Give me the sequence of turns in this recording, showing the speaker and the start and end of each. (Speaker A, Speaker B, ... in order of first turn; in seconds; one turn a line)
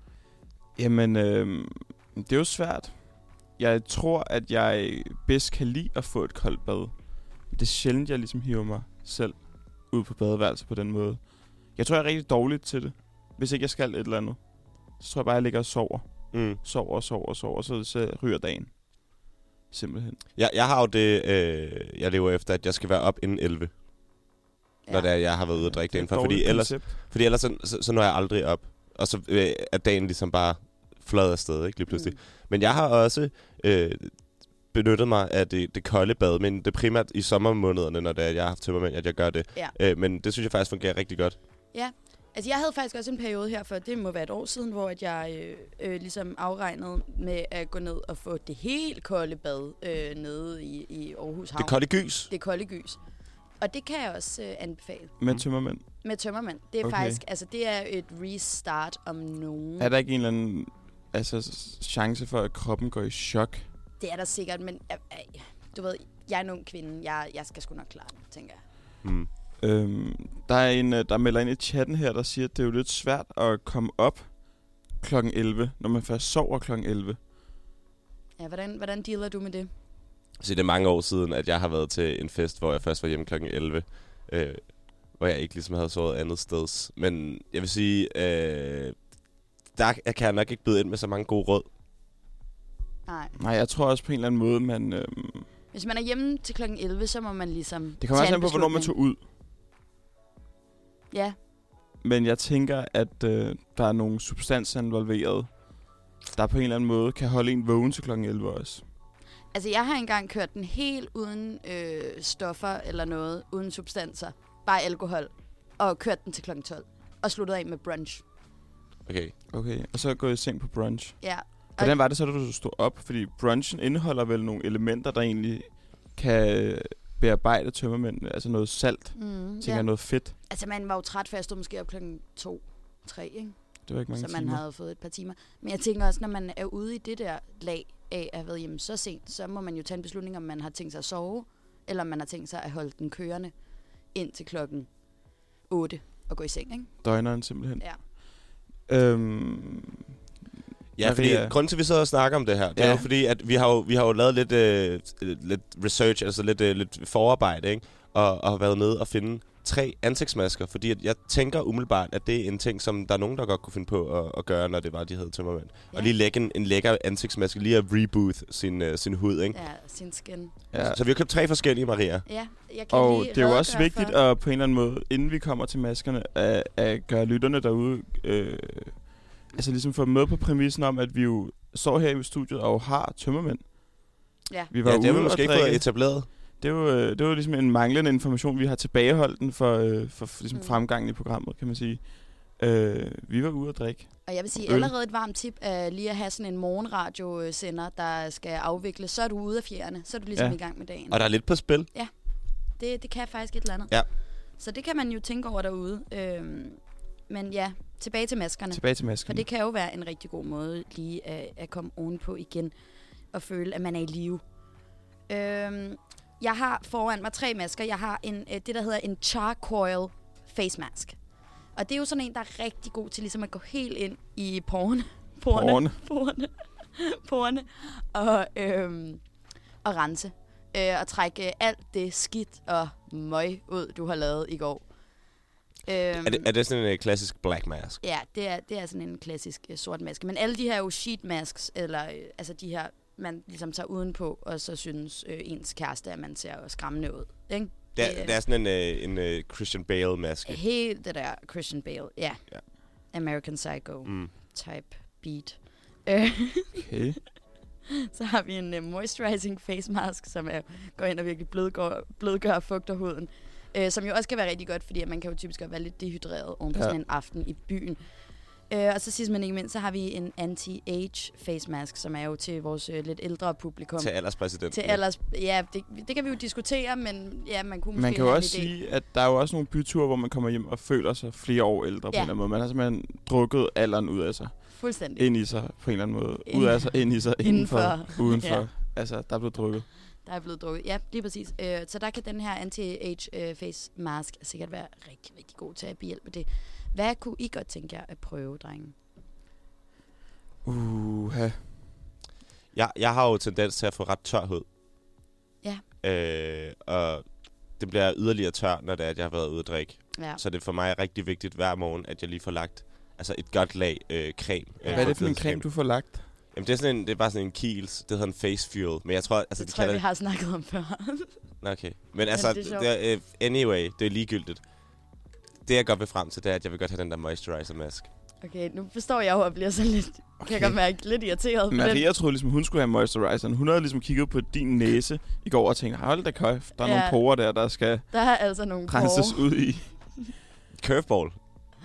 Speaker A: 0.8-14.4
Speaker A: 15.0-18.8
Speaker B: 16.3-16.6
Speaker A: 19.7-20.2
Speaker B: 20.4-23.8
Speaker B: 24.9-41.4
Speaker A: 25.6-26.9
Speaker C: 31.9-32.1
Speaker C: 41.7-53.0
Speaker B: 51.6-52.3
Speaker C: 53.6-55.1
Speaker A: 55.2-55.9
Speaker C: 56.0-59.9
Speaker A: 56.8-57.2
Speaker A: 59.8-63.6
Speaker C: 64.0-68.6
Speaker A: 69.6-77.2
Speaker C: 78.4-79.7
Speaker B: 80.4-88.9
Speaker B: 89.7-91.7
Speaker C: 93.0-93.3
Speaker A: 93.4-95.5
Speaker C: 95.7-98.9
Speaker A: 98.0-99.2
Speaker C: 101.1-101.3
Speaker A: 102.0-105.8
Speaker A: 106.3-108.8
Speaker C: 109.5-118.2
Speaker B: 119.0-119.3
Speaker A: 119.5-130.3
Speaker C: 121.2-122.0
Speaker C: 129.1-143.5
Speaker A: 133.9-134.6
Speaker C: 144.1-144.9
Speaker C: 145.7-146.9
Speaker A: 147.0-150.0
Speaker B: 150.9-169.6
Speaker A: 151.0-151.6
Speaker A: 152.7-153.1
Speaker C: 169.5-170.5
Speaker A: 170.7-171.0
Speaker B: 170.7-172.2
Speaker C: 172.2-174.2
Speaker A: 172.9-184.0
Speaker A: 184.7-194.9
Speaker B: 184.8-186.3
Speaker C: 190.5-190.8
Speaker C: 194.2-202.1
Speaker B: 201.1-201.9
Speaker C: 202.8-204.0
Speaker C: 204.6-212.7
Speaker A: 208.7-209.4
Speaker C: 213.3-214.4
Speaker C: 215.3-221.2
Speaker C: 221.7-229.2
Speaker A: 225.5-226.0
Speaker C: 229.8-234.8
Speaker C: 235.8-236.5
Speaker B: 236.2-238.0
Speaker C: 238.0-248.4
Speaker B: 247.9-250.6
Speaker C: 250.4-256.8
Speaker B: 254.0-254.3
Speaker A: 256.8-257.2
Speaker C: 258.0-268.0
Speaker C: 268.7-278.7
Speaker B: 274.0-275.0
Speaker A: 277.9-289.9
Speaker C: 284.7-285.2
Speaker C: 286.5-288.6
Speaker C: 290.2-298.9
Speaker A: 300.6-301.9
Speaker B: 302.7-304.6
Speaker B: 306.0-320.0
Speaker C: 310.1-310.4
Speaker C: 314.8-315.1
Speaker A: 314.9-316.3
Speaker C: 319.6-321.4
Speaker B: 321.6-324.6
Speaker C: 322.3-322.9
Speaker B: 325.6-328.1
Speaker C: 328.4-332.0
Speaker A: 330.4-330.8
Speaker A: 331.7-338.1
Speaker C: 336.8-337.2
Speaker C: 338.1-339.5
Speaker A: 338.9-339.9
Speaker B: 340.8-341.4